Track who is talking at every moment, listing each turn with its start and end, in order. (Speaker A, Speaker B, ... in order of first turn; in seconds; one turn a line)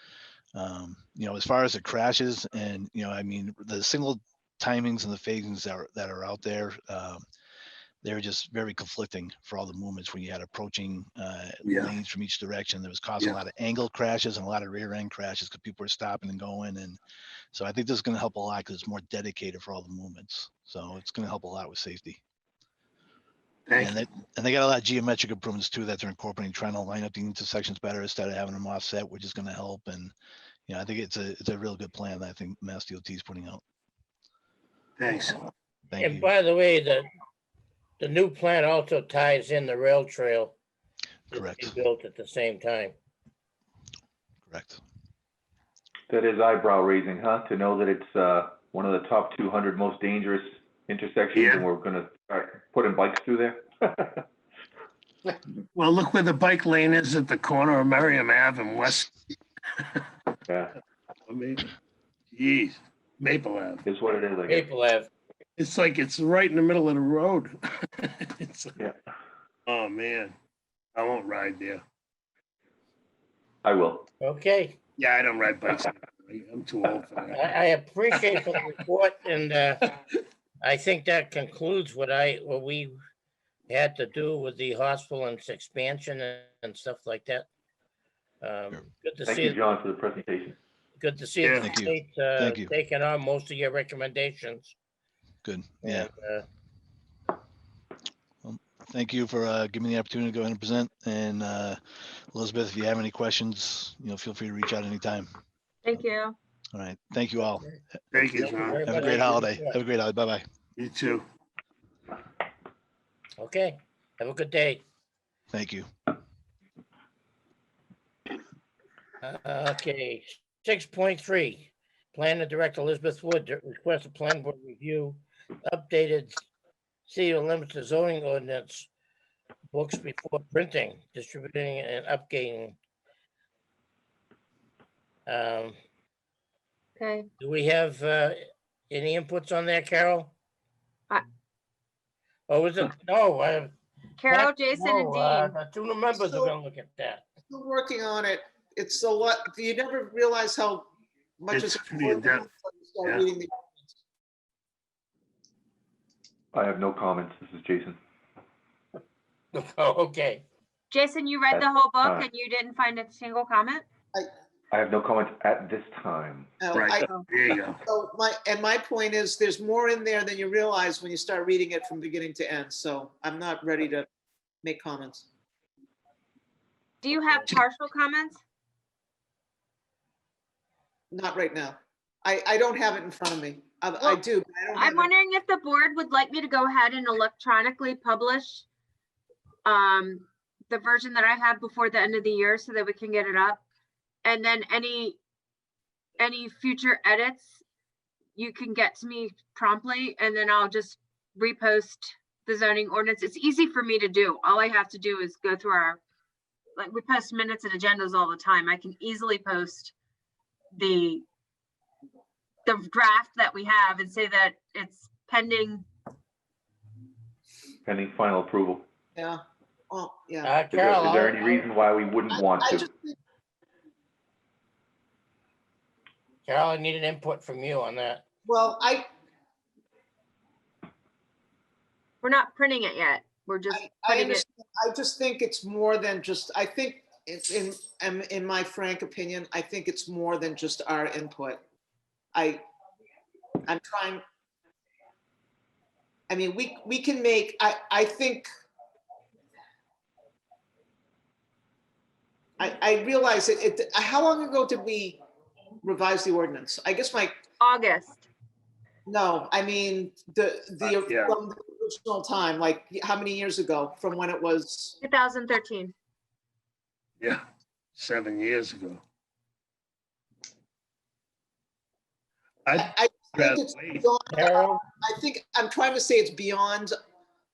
Speaker A: 0.5-7.2
Speaker A: 8.0-17.0
Speaker B: 11.6-11.9
Speaker A: 17.5-22.2
Speaker B: 23.7-24.1
Speaker A: 23.8-30.1
Speaker A: 30.7-33.6
Speaker B: 35.0-35.4
Speaker A: 35.9-36.3
Speaker C: 36.0-37.1
Speaker C: 38.0-40.5
Speaker A: 41.3-41.7
Speaker C: 41.3-42.9
Speaker A: 44.5-44.8
Speaker D: 46.1-54.2
Speaker B: 51.3-51.7
Speaker B: 55.7-59.1
Speaker B: 61.3-61.7
Speaker B: 62.3-63.8
Speaker D: 63.8-64.7
Speaker C: 64.5-65.1
Speaker B: 65.6-68.8
Speaker B: 69.7-70.3
Speaker B: 70.9-71.8
Speaker D: 73.6-74.1
Speaker C: 74.2-74.8
Speaker B: 75.0-77.5
Speaker C: 77.3-79.9
Speaker B: 78.1-78.5
Speaker C: 80.6-83.0
Speaker C: 83.7-87.5
Speaker C: 88.4-89.7
Speaker D: 89.2-90.6
Speaker C: 91.0-94.7
Speaker B: 91.4-91.7
Speaker A: 91.6-92.7
Speaker A: 95.4-96.1
Speaker C: 95.8-96.5
Speaker A: 98.4-105.3
Speaker E: 105.8-106.3
Speaker A: 106.7-107.7
Speaker B: 108.1-109.1
Speaker C: 108.3-109.8
Speaker A: 108.6-110.4
Speaker B: 110.8-111.2
Speaker C: 113.4-114.8
Speaker A: 115.5-115.9
Speaker C: 119.2-126.5
Speaker C: 127.1-128.9
Speaker C: 129.7-132.8
Speaker C: 135.3-135.8
Speaker E: 137.0-137.3
Speaker C: 137.4-140.3
Speaker C: 142.5-143.7
Speaker E: 144.2-145.5
Speaker C: 144.2-147.3
Speaker F: 146.1-146.5
Speaker F: 147.5-153.9
Speaker B: 151.5-152.4
Speaker D: 156.5-158.0
Speaker C: 159.5-160.4
Speaker E: 160.9-163.8
Speaker D: 161.5-162.3
Speaker D: 164.7-166.6
Speaker F: 166.6-167.1
Speaker B: 166.7-167.8
Speaker F: 167.8-174.1
Speaker F: 174.6-175.3
Speaker E: 177.0-178.4
Speaker B: 177.2-177.6
Speaker F: 181.1-185.1
Speaker E: 184.7-188.6
Speaker E: 189.6-193.6
Speaker E: 194.2-195.2
Speaker E: 196.2-197.5
Speaker E: 198.3-206.0
Speaker E: 206.8-209.9
Speaker E: 210.7-211.2
Speaker E: 212.7-215.8
Speaker D: 217.8-218.8
Speaker F: 219.1-220.6
Speaker C: 220.4-221.6
Speaker D: 220.7-222.9
Speaker F: 222.3-223.2
Speaker C: 226.4-228.2
Speaker F: 228.4-229.0
Speaker E: 232.2-234.4
Speaker F: 233.7-241.6
Speaker F: 242.3-242.6
Speaker F: 243.7-244.2
Speaker F: 246.3-248.4
Speaker F: 252.6-255.2
Speaker F: 255.8-257.3
Speaker E: 257.6-258.2
Speaker F: 259.1-264.9
Speaker B: 260.8-261.4
Speaker E: 265.0-265.9
Speaker B: 267.9-269.0
Speaker B: 272.6-274.0
Speaker F: 272.7-276.9
Speaker C: 274.3-274.8